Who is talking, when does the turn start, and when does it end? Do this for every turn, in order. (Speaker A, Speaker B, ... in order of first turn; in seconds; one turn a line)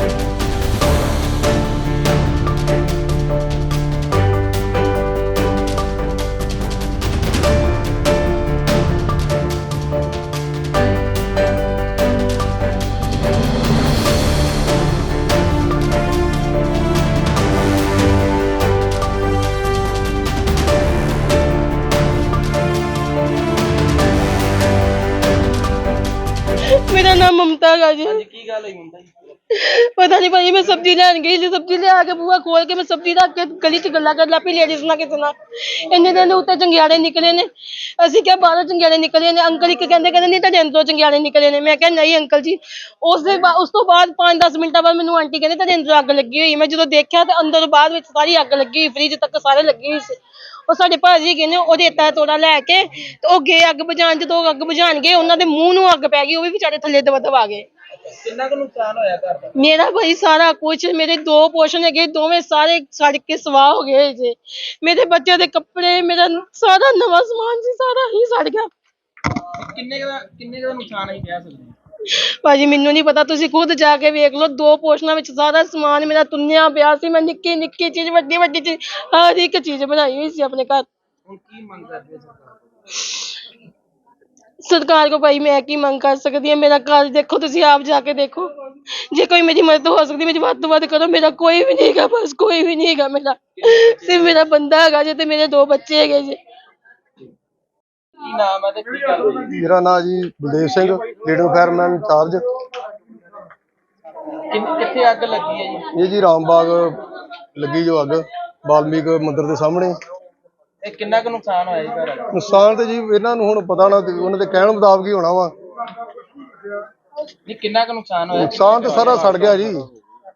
Speaker A: 26.7-28.2
Speaker B: 28.0-29.1
Speaker A: 29.5-57.7
Speaker B: 58.1-59.6
Speaker A: 59.5-68.7
Speaker B: 69.4-71.8
Speaker A: 72.1-80.9
Speaker B: 81.3-82.5
Speaker A: 84.6-96.4
Speaker B: 93.6-94.4
Speaker B: 98.2-99.5
Speaker C: 99.5-102.4
Speaker B: 104.5-105.9
Speaker C: 105.9-107.0
Speaker C: 107.5-110.0
Speaker B: 110.8-112.3
Speaker C: 112.3-115.5
Speaker B: 117.5-119.9
Speaker C: 118.3-119.9